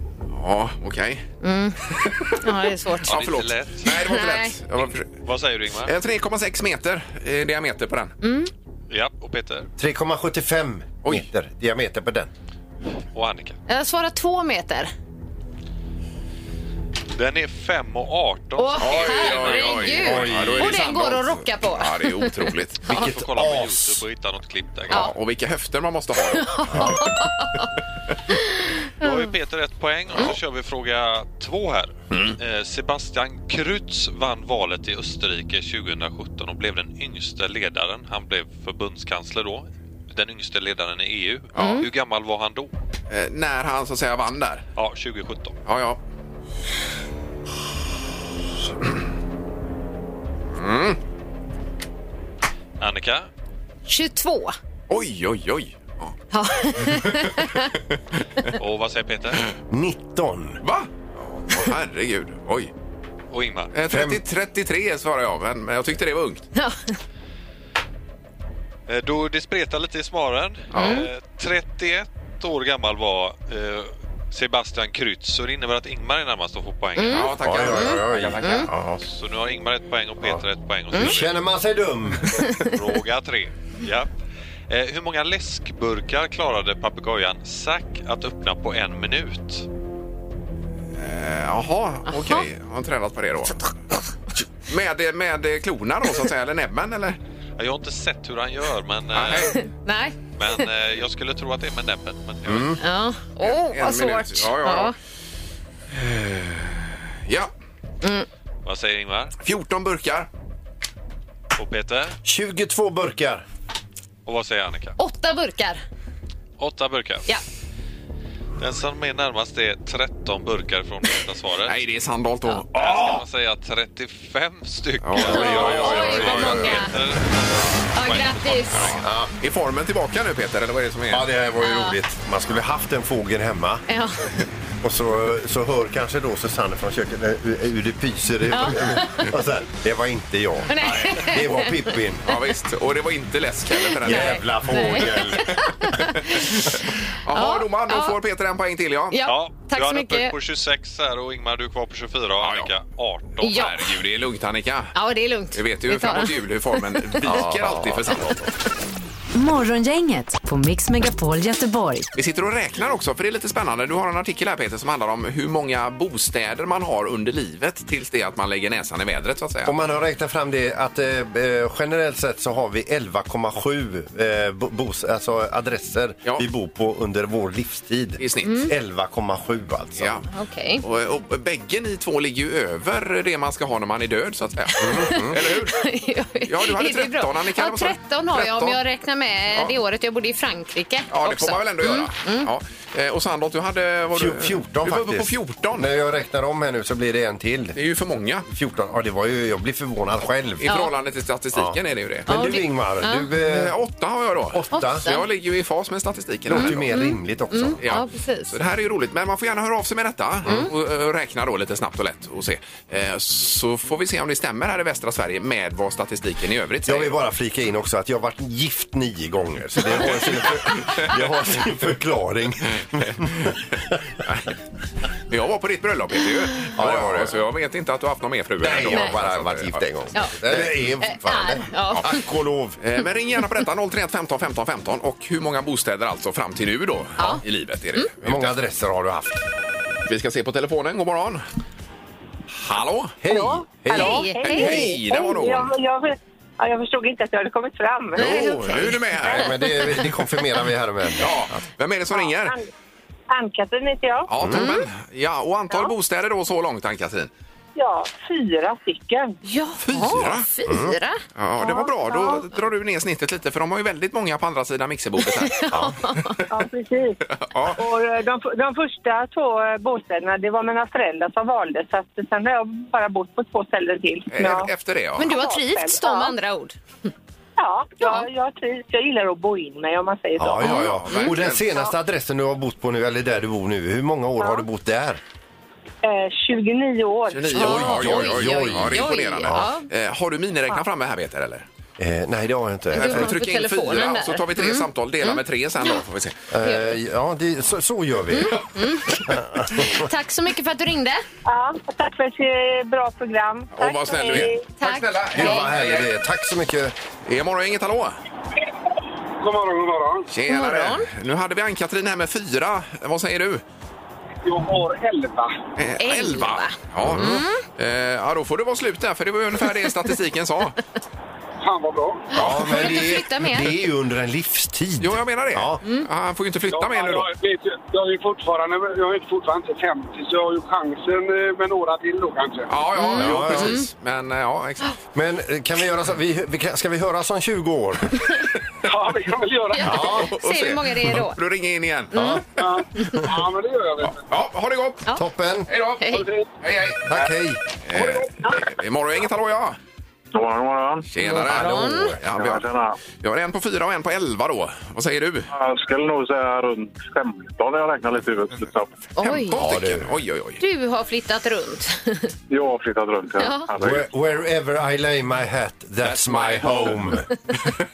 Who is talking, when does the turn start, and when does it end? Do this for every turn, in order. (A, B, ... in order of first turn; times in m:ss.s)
0:00.3-0:01.3 A
0:01.4-0:01.8 B
0:01.9-0:02.4 A
0:02.4-0:03.2 B
0:03.1-0:05.1 A
0:03.1-0:03.9 C
0:03.8-0:04.5 B
0:05.2-0:05.9 C
0:05.8-0:08.2 A
0:08.2-0:08.5 B
0:08.9-0:09.7 C
0:09.8-0:12.3 D
0:13.1-0:13.6 C
0:13.7-0:14.9 B
0:17.1-0:20.2 C
0:18.6-0:22.3 B
0:18.8-0:22.9 A
0:20.0-0:21.3 D
0:22.9-0:24.0 D
0:22.9-0:25.1 C
0:24.9-0:27.0 A
0:26.4-0:27.6 B
0:29.0-0:29.3 B
0:29.0-0:42.7 C
0:32.1-0:32.4 A
0:41.5-0:41.8 A
0:41.6-0:41.9 B
0:43.1-0:44.6 A
0:44.8-0:45.5 C
0:45.6-0:46.0 A
0:50.5-0:51.0 A
0:52.8-0:53.3 C
0:53.9-0:54.6 B
0:54.9-0:56.1 A
0:56.3-0:57.7 B
0:56.9-0:57.3 A
0:58.6-0:59.4 C
0:59.7-1:00.6 D
1:00.6-1:02.7 A
1:03.3-1:03.7 C
1:03.7-1:06.5 A
1:03.9-1:04.2 D
1:06.5-1:07.0 B
1:08.9-1:17.3 C
1:10.7-1:11.0 A
1:10.8-1:11.1 B
1:17.0-1:18.7 B
1:17.1-1:19.0 A
1:17.4-1:18.9 D
1:19.1-1:21.3 C
1:20.9-1:22.3 D
1:22.6-1:24.1 C
1:24.7-1:29.6 C
1:31.0-1:33.6 A
1:32.1-1:32.4 B
1:34.6-1:37.2 A
1:37.6-1:39.6 C
1:39.1-1:39.5 A
1:39.3-1:40.7 B
1:40.4-1:42.7 C
1:42.4-1:42.7 D
1:42.8-1:44.9 B
1:43.4-1:44.9 A
1:45.9-1:47.5 A
1:48.0-1:48.3 B
1:48.6-1:49.3 C
1:49.4-1:50.3 A
1:51.6-1:52.2 C
1:52.2-1:53.4 D
1:54.2-1:55.0 C
1:55.0-1:55.8 B
1:56.6-1:57.3 C
1:58.6-2:01.8 C
2:01.6-2:03.2 A
2:02.8-2:09.0 C
2:05.0-2:06.9 A
2:05.2-2:06.7 D
2:05.3-2:06.9 B
2:07.9-2:09.0 B
2:09.0-2:09.3 D
2:09.4-2:11.3 A
2:11.1-2:13.8 D
2:11.6-2:11.9 B
2:13.9-2:14.3 B
2:14.8-2:22.2 D
2:18.5-2:19.3 B
2:20.7-2:21.7 B
2:22.2-2:25.4 A
2:24.0-2:25.5 D
2:24.0-2:28.1 B
2:26.3-2:26.7 A
2:27.2-2:29.2 A
2:29.1-2:30.3 B
2:29.2-2:33.5 C
2:32.4-2:32.7 A
2:33.4-2:33.9 B
2:33.4-2:34.9 A
2:34.9-2:37.4 B
2:35.5-2:38.4 A
2:37.2-2:38.4 D
2:39.3-2:42.1 E
2:42.1-2:49.7 A
2:49.6-3:00.2 D
2:58.2-2:58.6 A
2:58.4-2:58.7 B
3:00.0-3:00.3 A
3:00.3-3:00.8 B
3:00.8-3:05.8 A
3:04.8-3:05.4 D
3:04.9-3:12.5 B
3:06.4-3:08.8 A
3:11.1-3:15.9 A
3:14.1-3:17.8 D
3:17.7-3:18.4 A
3:18.5-3:20.7 D
3:20.6-3:22.3 A
3:20.6-3:20.9 B
3:21.5-3:23.8 D
3:22.3-3:23.3 B
3:23.4-3:26.8 A
3:24.5-3:25.0 D
3:24.7-3:25.2 B
3:26.5-3:27.8 D
3:26.5-3:28.5 B
3:27.8-3:37.1 A
3:36.8-3:43.9 D
3:39.9-3:40.4 A
3:43.0-3:43.5 A
3:45.3-3:50.1 A
3:46.8-3:47.4 D
3:48.6-3:52.8 D
3:48.8-3:49.1 B
3:50.1-3:52.2 B
3:52.8-3:58.5 A
3:58.2-3:59.4 D
4:00.0-4:01.4 A
4:02.6-4:03.2 A
4:03.2-4:04.2 D
4:03.2-4:08.6 F
4:03.9-4:04.8 B
4:04.4-4:05.7 A
4:08.1-4:09.5 A
4:08.2-4:09.0 B
4:09.2-4:11.4 D
4:11.2-4:12.6 A
4:12.1-4:12.6 F
4:13.3-4:14.3 F
4:14.3-4:17.3 A
4:14.4-4:14.6 D
4:14.5-4:14.8 B
4:17.8-4:19.3 F
4:19.4-4:21.2 B
4:19.8-4:20.5 A
4:20.7-4:20.9 D
4:21.4-4:25.6 A
4:21.6-4:22.4 F
4:25.3-4:26.4 B
4:25.7-4:26.0 D
4:26.5-4:27.2 F
4:27.3-4:27.8 A
4:27.7-4:34.7 F
4:34.3-4:35.3 A
4:35.2-4:36.8 B
4:35.2-4:36.3 F
4:37.6-4:40.7 F
4:38.0-4:38.2 B
4:40.4-4:45.2 D
4:40.6-4:41.6 A
4:44.4-4:44.6 F
4:46.0-4:47.5 F
4:47.3-4:51.6 A
4:47.5-4:49.8 B
4:47.5-4:49.7 D
4:52.0-4:53.3 D
4:52.9-4:56.0 B
4:52.9-4:56.4 A
4:56.5-4:58.6 D
4:56.6-4:56.9 B
4:58.3-5:01.2 B
4:59.2-5:00.0 D
5:01.4-5:04.6 F
5:03.7-5:06.1 A
5:04.8-5:05.7 B
5:05.3-5:06.9 D
5:07.2-5:08.2 A
5:09.4-5:10.3 G
5:10.3-5:13.6 A
5:10.5-5:11.1 B
5:14.4-5:15.6 G
5:15.8-5:20.8 A
5:16.0-5:17.6 B
5:17.0-5:17.4 D
5:21.6-5:22.3 G
5:22.3-5:23.7 B
5:22.3-5:25.8 D
5:22.4-5:22.9 A
5:25.0-5:27.3 A
5:26.7-5:32.7 G
5:32.7-5:35.0 A
5:33.0-5:33.8 B
5:33.2-5:33.8 D
5:35.1-5:38.2 D
5:38.8-5:39.9 G
5:39.7-5:41.4 B
5:39.8-5:40.3 D
5:39.9-5:42.3 A
5:42.1-5:42.4 B
5:42.1-5:42.4 D
5:42.6-5:44.2 G
5:43.0-5:43.3 B
5:44.1-5:45.0 A
5:45.1-5:45.7 D
5:45.7-5:47.3 A
5:46.0-5:46.2 B
5:46.1-5:46.5 G
5:47.1-5:47.6 D
5:47.8-5:49.8 A
5:48.0-5:48.2 G
5:50.3-5:51.1 H
5:51.1-5:55.5 A
5:51.3-5:52.1 B
5:51.3-5:52.2 D
5:52.3-5:53.0 H
5:55.5-5:58.9 H
5:59.2-5:59.6 B
5:59.2-6:00.6 A
5:59.5-6:00.1 D
6:00.6-6:02.3 B
6:02.5-6:04.0 H
6:03.4-6:03.7 B
6:03.8-6:07.3 D
6:06.0-6:07.7 A